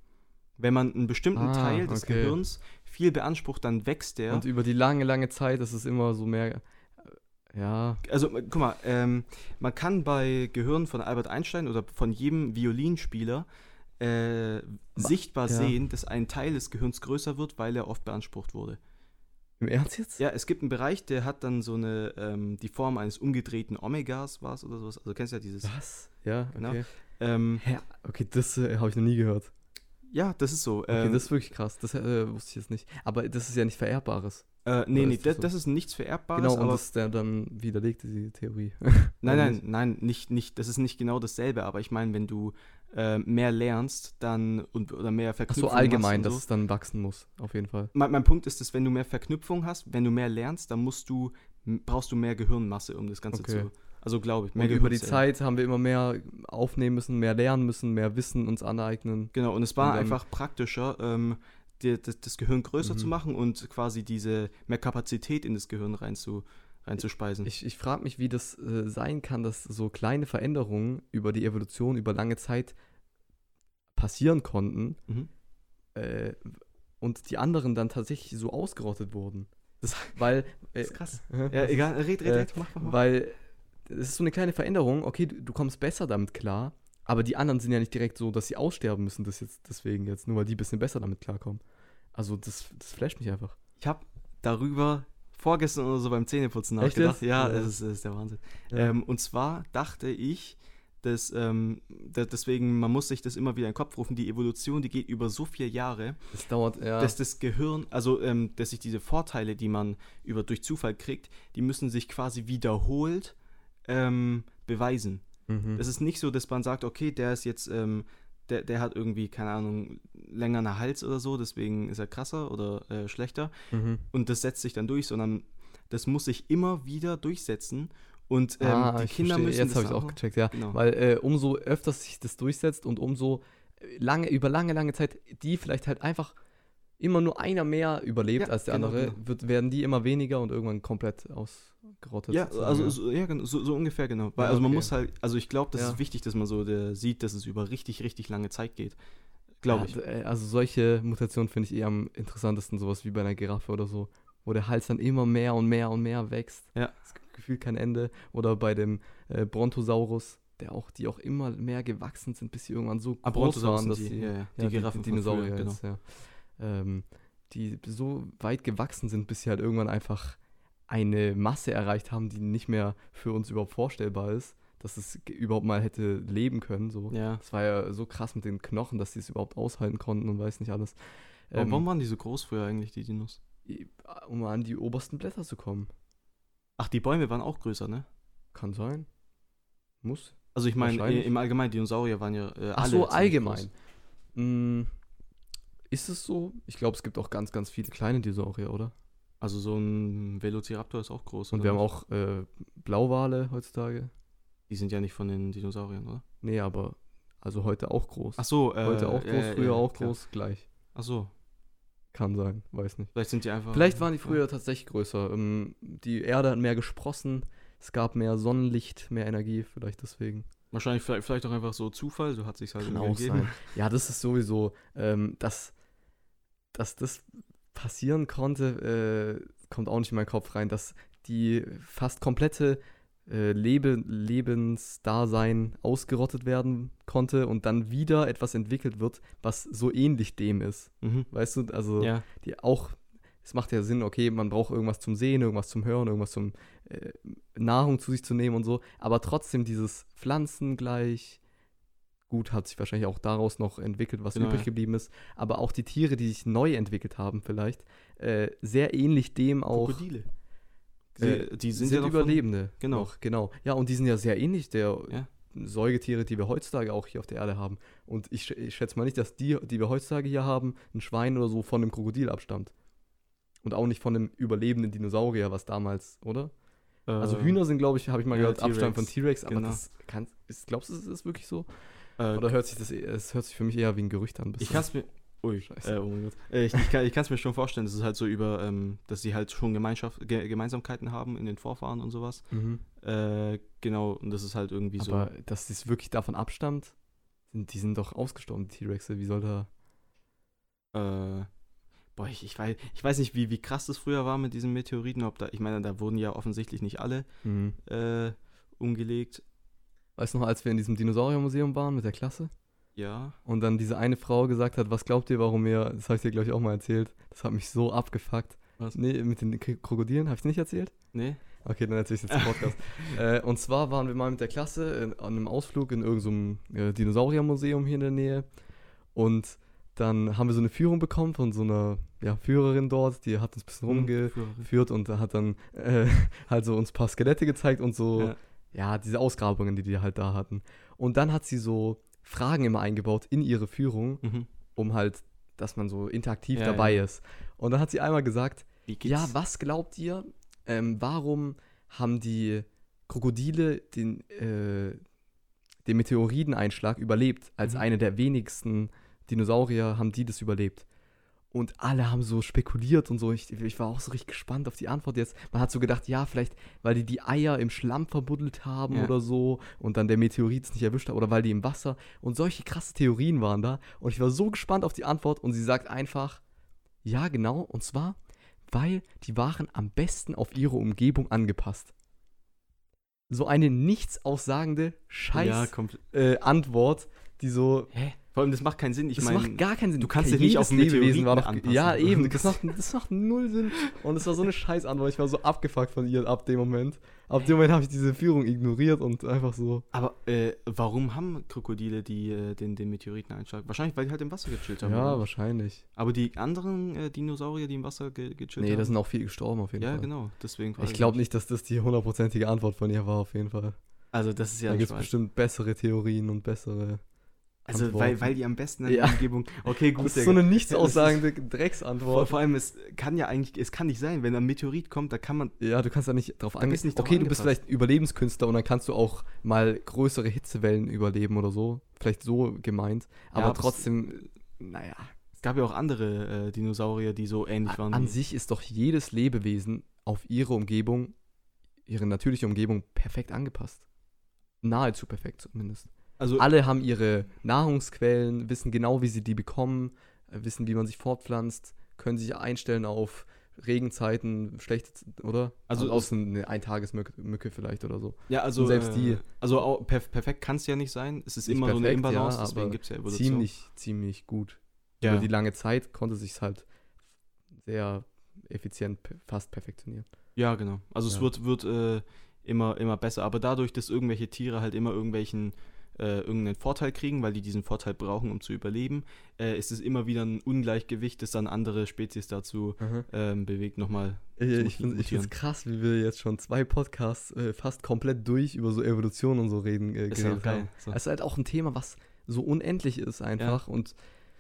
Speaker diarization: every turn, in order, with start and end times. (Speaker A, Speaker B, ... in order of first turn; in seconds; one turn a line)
Speaker A: 0.6-4.5
Speaker B: 1.4-2.4
Speaker B: 4.3-8.0
Speaker A: 8.0-13.5
Speaker A: 14.0-18.8
Speaker B: 15.0-15.8
Speaker B: 19.6-20.2
Speaker A: 20.2-25.7
Speaker B: 25.6-26.9
Speaker A: 26.6-27.6
Speaker B: 27.6-29.5
Speaker A: 30.1-31.3
Speaker B: 30.9-35.5
Speaker A: 34.6-36.8
Speaker B: 36.3-39.6
Speaker A: 39.2-46.4
Speaker B: 45.5-47.9
Speaker A: 47.9-55.2
Speaker B: 53.3-53.7
Speaker B: 54.6-60.2
Speaker A: 59.3-67.5
Speaker B: 62.8-63.1
Speaker B: 67.5-72.8
Speaker B: 74.0-75.0
Speaker B: 76.0-79.5
Speaker A: 79.8-80.2
Speaker B: 80.2-91.6
Speaker A: 80.8-83.0
Speaker B: 92.2-93.6
Speaker A: 93.8-106.2
Speaker B: 96.8-97.7
Speaker B: 106.3-107.2
Speaker A: 107.0-113.3
Speaker A: 113.9-115.2
Speaker B: 115.5-115.8
Speaker A: 115.8-123.5
Speaker B: 123.7-124.0
Speaker A: 124.1-130.8
Speaker B: 128.6-136.4
Speaker B: 137.0-143.0
Speaker A: 138.4-139.2
Speaker A: 142.3-149.0
Speaker B: 144.4-144.9
Speaker B: 145.8-146.0
Speaker A: 149.6-150.0
Speaker B: 149.7-181.0
Speaker A: 163.2-165.8
Speaker A: 177.1-177.4
Speaker B: 181.5-181.8
Speaker A: 181.6-183.4
Speaker B: 183.7-185.9
Speaker A: 186.8-188.1
Speaker B: 188.5-189.1
Speaker B: 190.0-191.3
Speaker A: 190.6-193.7
Speaker B: 192.8-193.7
Speaker B: 194.3-194.9
Speaker B: 195.9-198.9
Speaker A: 199.4-201.8
Speaker B: 201.5-204.1
Speaker A: 204.7-206.2
Speaker B: 206.4-210.7
Speaker A: 208.4-210.2
Speaker A: 210.9-211.3
Speaker B: 212.1-213.1
Speaker A: 213.2-214.4
Speaker B: 213.7-220.5
Speaker A: 220.7-223.6
Speaker B: 222.8-225.7
Speaker B: 226.7-251.4
Speaker A: 241.0-241.3
Speaker A: 242.0-242.3
Speaker B: 252.3-260.0
Speaker A: 254.3-254.7
Speaker A: 259.7-260.3
Speaker A: 261.2-263.1
Speaker B: 261.2-272.7
Speaker B: 273.6-276.5
Speaker A: 277.1-277.6
Speaker B: 277.2-281.7
Speaker A: 278.3-279.8
Speaker A: 282.2-282.5
Speaker B: 282.3-284.9
Speaker A: 284.6-292.4
Speaker B: 285.7-285.9
Speaker B: 292.5-292.8
Speaker A: 293.0-295.3
Speaker B: 295.0-296.9
Speaker B: 297.5-299.7
Speaker A: 300.9-301.5
Speaker A: 302.2-307.3
Speaker B: 307.4-307.8
Speaker A: 307.9-309.4
Speaker B: 310.2-312.5
Speaker A: 313.0-313.4
Speaker B: 313.5-320.9
Speaker A: 321.1-321.4
Speaker B: 321.6-328.5
Speaker A: 322.3-323.2
Speaker B: 329.1-344.2
Speaker A: 333.9-334.7
Speaker B: 344.8-355.0
Speaker A: 346.5-347.0
Speaker A: 348.9-349.3
Speaker B: 355.9-360.9
Speaker B: 361.5-376.4
Speaker B: 377.1-378.2
Speaker B: 378.7-381.9
Speaker B: 383.3-387.9
Speaker A: 385.3-386.0
Speaker A: 387.9-392.8
Speaker B: 389.2-399.9
Speaker A: 399.9-405.2
Speaker B: 404.8-405.8
Speaker A: 406.0-408.9
Speaker B: 408.6-410.1
Speaker A: 409.8-411.2
Speaker B: 410.8-413.8
Speaker A: 414.1-415.1
Speaker B: 414.7-417.0
Speaker B: 417.7-418.2
Speaker A: 417.7-421.2
Speaker B: 418.9-419.2
Speaker B: 420.0-422.4
Speaker A: 422.0-425.6
Speaker B: 425.6-435.1
Speaker A: 426.6-427.5
Speaker A: 433.4-433.9
Speaker A: 435.4-438.2
Speaker B: 437.7-441.1
Speaker B: 441.9-443.8
Speaker B: 444.6-459.2
Speaker A: 446.2-446.5
Speaker A: 455.7-456.1
Speaker A: 458.3-463.5
Speaker B: 461.5-466.7
Speaker A: 465.0-465.3
Speaker B: 467.6-470.1
Speaker A: 470.4-485.3
Speaker B: 482.8-483.1
Speaker B: 484.4-494.0
Speaker A: 490.1-491.0